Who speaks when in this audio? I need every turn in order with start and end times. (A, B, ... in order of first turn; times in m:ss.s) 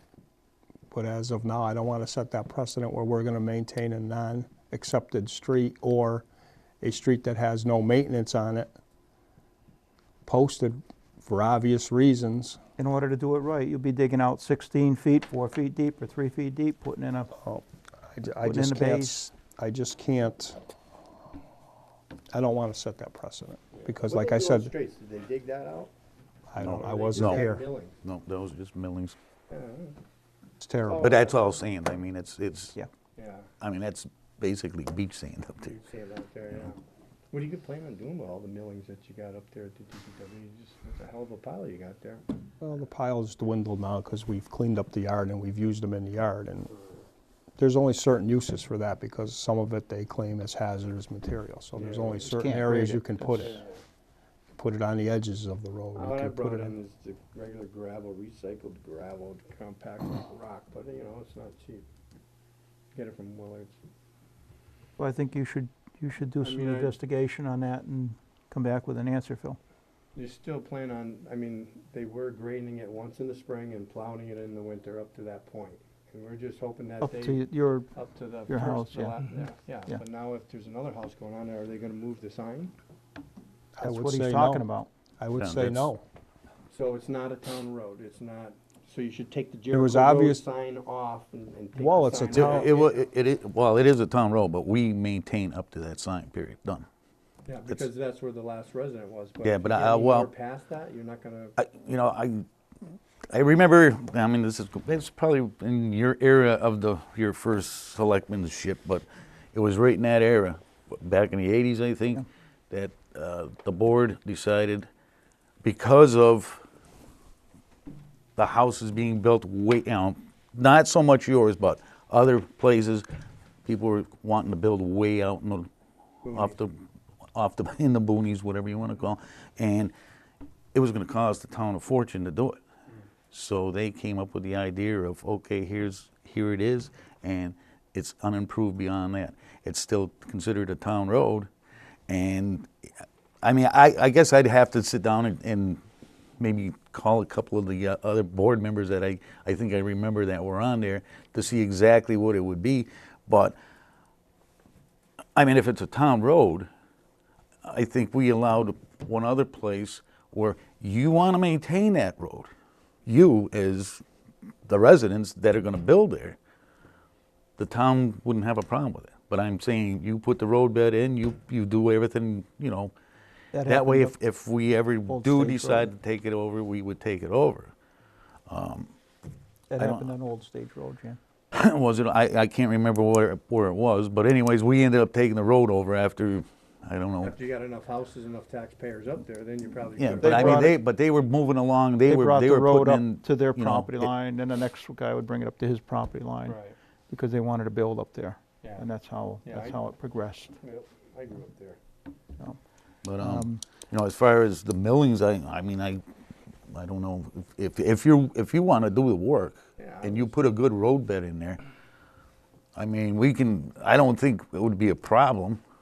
0:00.9-0:06.2 A
0:06.8-0:08.7 A
0:10.2-0:12.6 A
0:12.8-0:17.3 B
0:17.3-0:20.6 A
0:18.4-0:19.3 B
0:22.3-0:24.7 A
0:23.7-0:25.9 C
0:26.5-0:27.6 A
0:26.6-0:27.5 D
0:26.6-0:28.0 C
0:28.0-0:29.1 D
0:29.5-0:30.0 C
0:30.6-0:31.1 A
0:30.8-0:31.6 C
0:31.0-0:32.8 D
0:33.2-0:33.5 C
0:33.6-0:35.7 D
0:35.6-0:42.2 C
0:42.6-0:46.7 A
0:47.6-0:53.6 A
0:51.7-0:52.2 C
0:52.2-0:53.6 B
0:53.4-0:53.8 C
0:54.5-0:56.7 A
0:55.9-1:01.9 C
1:02.9-1:03.8 C
1:05.0-1:09.6 B
1:06.4-1:07.0 C
1:10.1-1:22.7 C
1:17.0-1:17.9 B
1:18.5-1:19.2 B
1:23.7-1:24.7 A
1:23.8-1:24.9 B
1:25.2-1:26.0 A
1:25.4-1:25.9 D
1:26.7-1:33.0 C
1:29.7-1:30.4 A
1:31.8-1:32.8 A
1:32.3-1:36.8 D
1:37.4-1:41.6 C
1:39.4-1:40.3 D
1:41.6-1:42.4 D
1:43.3-1:54.9 D
1:55.6-1:56.6 D
1:58.4-2:03.0 D
2:03.6-2:05.7 D
2:06.2-2:06.6 C
2:06.2-2:06.8 D
2:07.3-2:09.9 D
2:10.7-2:12.6 D
2:13.3-2:21.5 D
2:22.1-2:22.7 D
2:23.4-2:25.8 D
2:26.4-2:33.6 D
2:35.4-2:36.7 D
2:37.6-2:42.5 D
2:43.0-2:44.0 D
2:44.7-2:46.4 D
2:47.6-2:52.9 D
2:53.5-2:54.2 B
2:53.6-2:57.7 D
2:55.1-2:55.9 B
2:58.5-2:58.9 D
2:59.7-3:01.2 B
2:59.8-3:00.1 D
3:01.5-3:07.3 D
3:07.2-3:10.7 C
3:10.0-3:14.1 D
3:10.2-3:10.8 B
3:12.0-3:16.6 B
3:16.4-3:16.8 C
3:17.1-3:20.5 B
3:18.6-3:18.9 C
3:19.4-3:19.8 C
3:20.6-3:21.8 C
3:23.0-3:26.0 D
3:23.2-3:23.6 B
3:26.7-3:31.6 D
3:29.8-3:30.4 C
3:32.8-3:35.6 D